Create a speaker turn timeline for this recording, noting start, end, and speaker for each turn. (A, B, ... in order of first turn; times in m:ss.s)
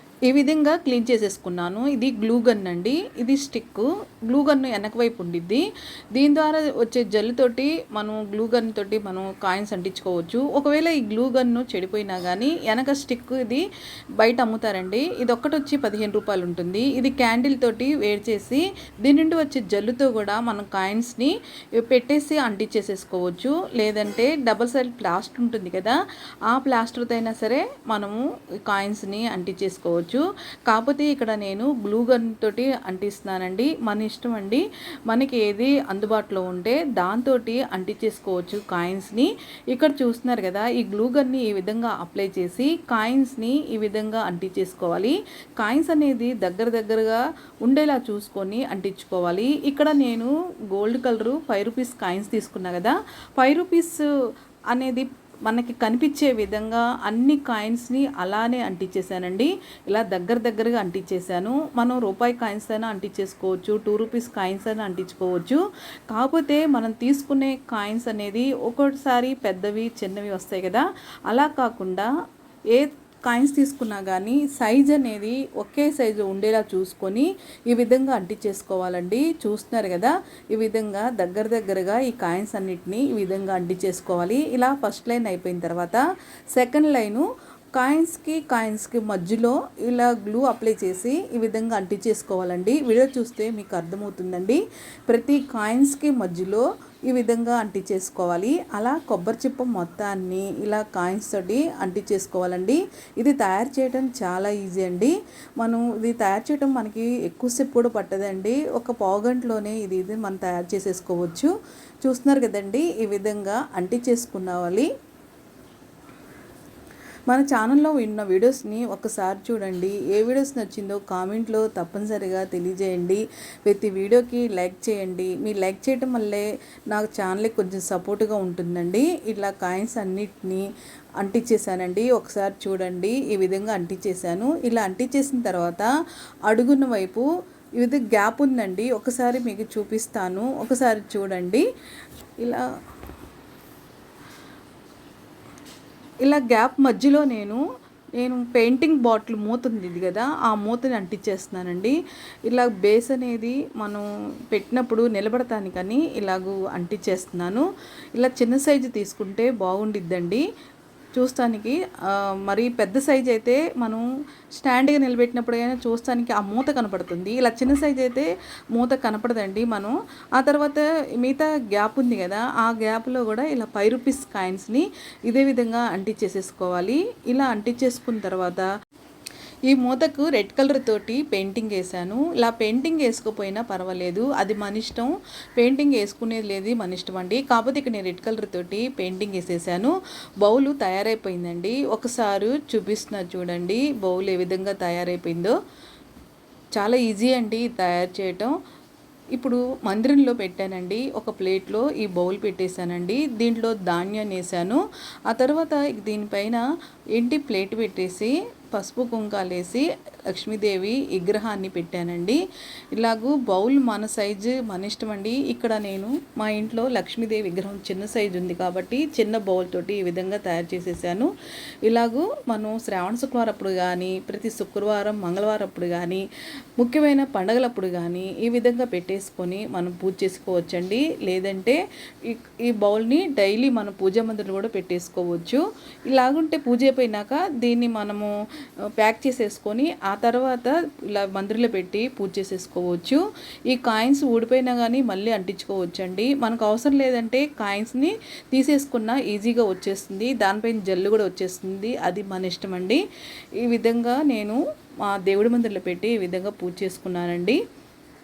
0:00.3-0:13.7 A
0:14.2-0:54.0 A
0:54.7-1:12.1 A
1:12.7-1:26.0 A
1:26.5-1:51.5 A
1:52.0-1:54.9 A
1:57.3-2:10.7 A
2:11.2-2:15.9 A
2:16.5-2:17.3 A
2:17.8-2:21.7 A
2:26.2-2:27.6 A
2:28.2-2:40.4 A
2:41.2-2:44.0 A
2:44.6-2:58.7 A
2:59.7-3:15.6 A
3:16.8-3:18.6 A
3:19.3-3:26.6 A
3:27.2-3:32.4 A
3:32.9-3:41.3 A
3:41.8-3:46.2 A
3:46.8-3:58.3 A
3:59.0-4:13.0 A
4:13.6-4:17.6 A